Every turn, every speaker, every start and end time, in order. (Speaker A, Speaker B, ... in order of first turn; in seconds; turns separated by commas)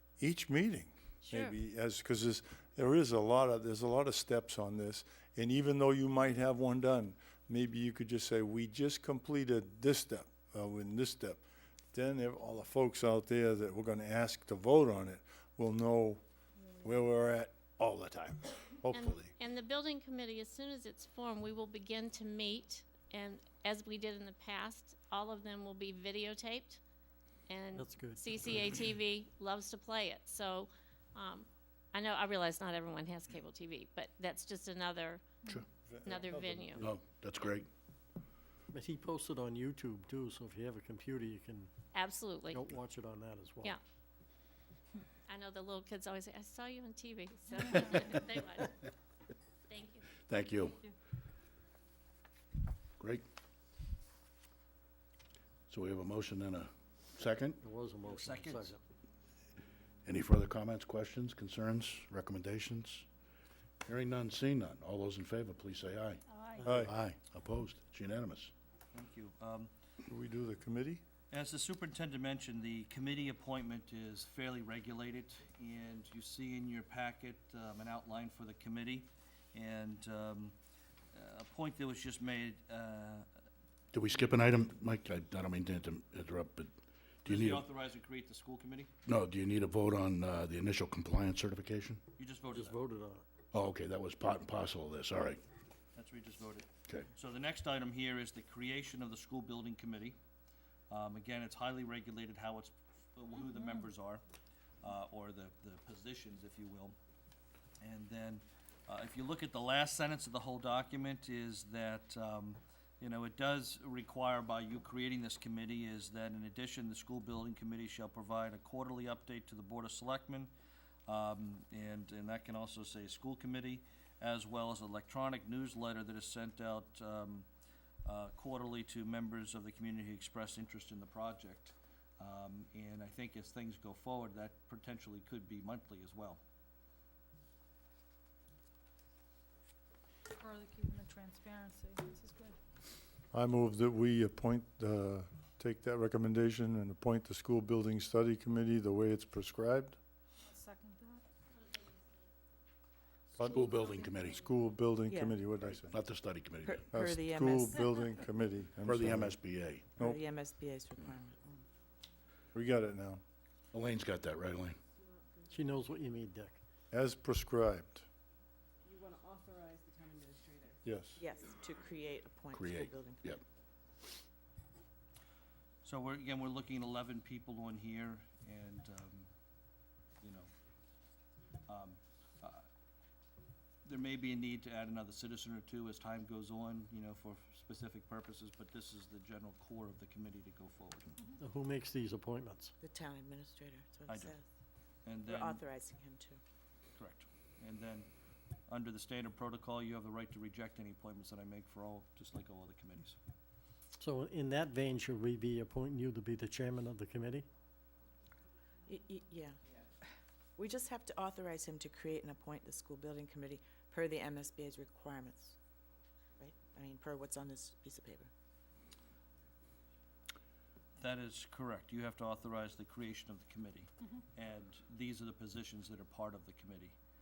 Speaker A: 0.2-16.2, Speaker B: 1.2-1.5, Speaker A: 16.7-19.3, Speaker B: 18.9-26.8, Speaker B: 27.5-35.2, Speaker C: 27.7-28.6, Speaker A: 35.9-36.9, Speaker B: 36.0-36.8, Speaker D: 36.8-37.7, Speaker C: 38.7-41.7, Speaker B: 41.9-42.6, Speaker C: 42.5-43.8, Speaker B: 45.3-48.8, Speaker B: 49.7-50.1, Speaker D: 50.2-50.9, Speaker D: 53.0-53.2, Speaker D: 55.7-57.6, Speaker C: 57.6-58.8, Speaker E: 58.0-58.8, Speaker D: 60.0-63.0, Speaker D: 63.8-68.5, Speaker F: 66.3-66.6, Speaker A: 66.6-66.9, Speaker E: 68.9-69.7, Speaker A: 70.0-71.0, Speaker E: 71.3-80.5, Speaker E: 81.1-83.3, Speaker D: 83.9-86.7, Speaker D: 87.2-87.7, Speaker E: 87.3-88.9, Speaker D: 89.1-92.0, Speaker E: 92.2-92.8, Speaker C: 92.5-93.2, Speaker D: 93.5-95.4, Speaker E: 96.0-100.2, Speaker E: 100.9-104.2, Speaker E: 104.8-107.0, Speaker E: 107.8-120.5, Speaker E: 121.1-127.5, Speaker E: 128.0-136.4, Speaker F: 140.4-142.6, Speaker A: 143.3-150.0, Speaker F: 150.4-151.2, Speaker B: 151.5-152.0, Speaker A: 153.4-153.7, Speaker D: 153.4-154.5, Speaker F: 153.4-154.3, Speaker A: 154.4-155.9, Speaker G: 155.1-155.4, Speaker D: 155.6-156.8, Speaker G: 156.6-158.0, Speaker A: 156.9-159.4, Speaker D: 158.8-159.8, Speaker G: 160.0-161.6, Speaker A: 162.5-163.2, Speaker D: 163.7-164.8, Speaker H: 165.0-165.5, Speaker C: 165.5-166.6, Speaker A: 166.9-168.1, Speaker H: 168.8-170.8, Speaker A: 170.8-171.2, Speaker G: 171.2-173.3, Speaker D: 172.5-173.4, Speaker E: 175.8-179.3, Speaker E: 180.2-180.5, Speaker E: 181.7-182.7, Speaker E: 183.8-191.1, Speaker C: 191.4-192.7, Speaker G: 192.8-194.5, Speaker E: 194.1-194.3, Speaker E: 195.0-195.6, Speaker G: 195.2-196.4, Speaker E: 197.0-198.1, Speaker E: 198.7-203.2, Speaker C: 204.0-207.4, Speaker G: 208.8-209.6, Speaker G: 210.6-215.5, Speaker G: 216.4-218.3, Speaker E: 221.0-226.9